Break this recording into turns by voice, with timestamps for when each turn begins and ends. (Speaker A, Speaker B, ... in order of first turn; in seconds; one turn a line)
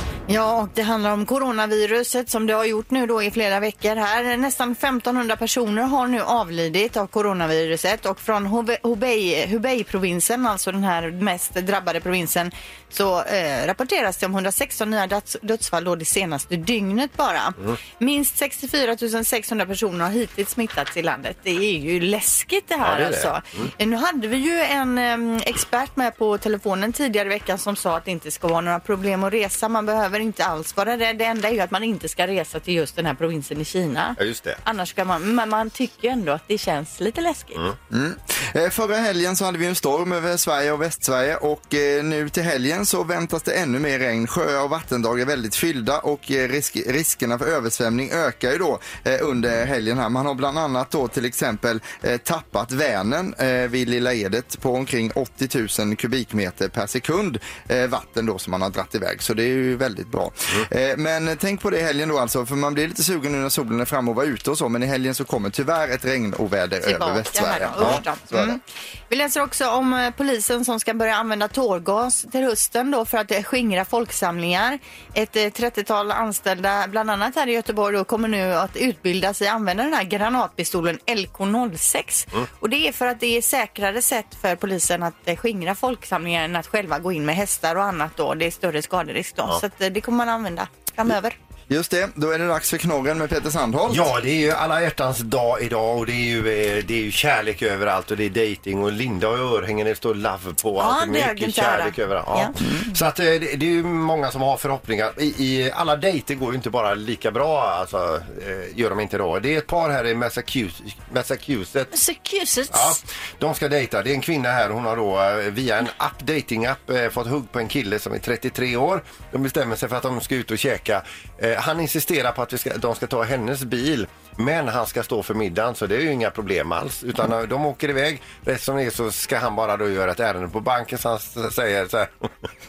Speaker A: 0.3-37.6
Speaker B: 22.8-23.7
Speaker B: 34.2-34.6
Speaker C: 37.9-68.6
Speaker A: 66.8-91.3
Speaker C: 91.7-94.1
Speaker B: 93.9-111.9
Speaker A: 100.8-102.5
Speaker A: 111.9-113.0
Speaker B: 112.7-132.3